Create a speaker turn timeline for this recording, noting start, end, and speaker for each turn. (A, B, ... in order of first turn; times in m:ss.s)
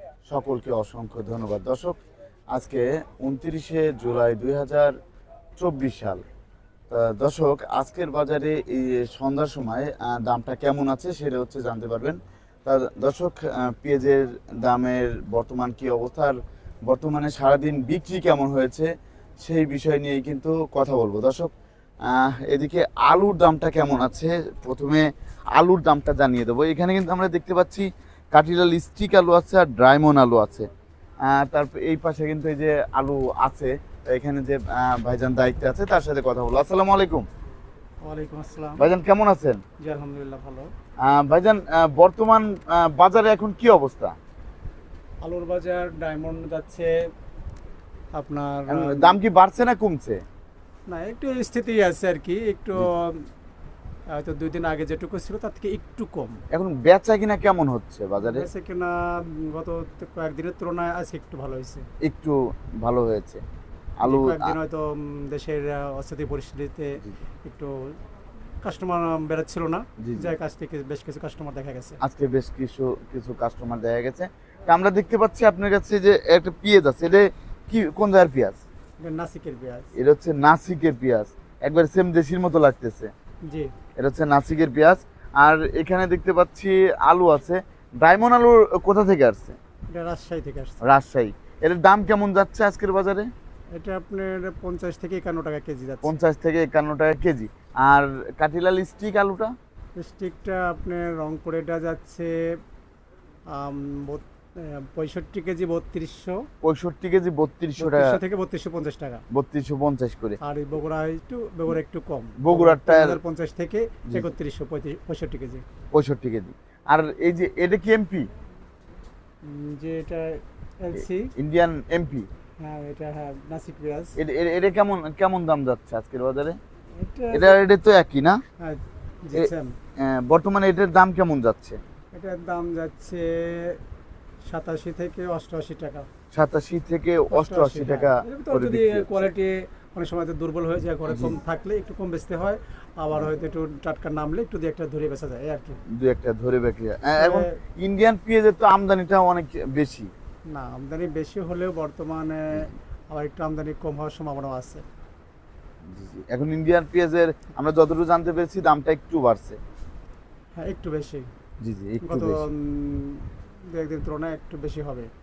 0:00.3-0:02.0 A
0:02.5-0:04.9 A
0:05.6-0:06.2 A
0:06.9-0:16.4 A
0:16.9-0:21.5 A
0:22.0-0:30.7 A
0:31.2-0:37.2 A
0:38.0-0:38.8 B
0:38.8-0:39.6 A
0:39.8-0:40.7 B
0:41.0-0:44.2 A
0:45.2-0:47.0 B
0:48.2-0:49.2 B
0:48.7-0:50.2 A
0:50.9-0:53.3 B
0:54.1-0:56.4 B
0:56.5-0:58.5 A
0:58.2-1:01.8 B
1:02.0-1:03.4 A
1:04.0-1:04.6 A
1:04.0-1:08.0 B
1:08.6-1:12.0 B
1:10.0-1:10.3 A
1:12.0-1:18.6 A
1:19.0-1:19.9 B
1:20.0-1:23.1 A
1:24.0-1:29.6 A
1:29.9-1:30.8 B
1:30.8-1:33.3 A
1:33.8-1:36.1 B
1:36.0-1:39.5 A
1:40.0-1:42.6 B
1:43.5-1:46.4 B
1:46.6-1:48.2 A
1:47.8-1:49.2 B
1:49.3-1:50.4 A
1:50.4-1:55.6 B
1:52.4-1:53.2 A
1:55.9-1:58.3 A
1:59.4-2:01.3 B
2:01.4-2:02.3 A
2:02.6-2:04.2 B
2:04.2-2:06.6 A
2:07.0-2:07.6 B
2:07.3-2:08.4 A
2:08.6-2:09.8 B
2:09.4-2:11.8 A
2:12.1-2:13.8 B
2:14.5-2:16.1 B
2:16.3-2:19.3 A
2:17.3-2:25.8 B
2:21.1-2:21.4 A
2:26.0-2:30.1 A
2:27.2-2:27.6 B
2:30.5-2:34.8 B
2:35.9-2:39.6 A
2:40.6-2:41.3 B
2:41.6-2:42.4 A
2:42.0-2:45.1 B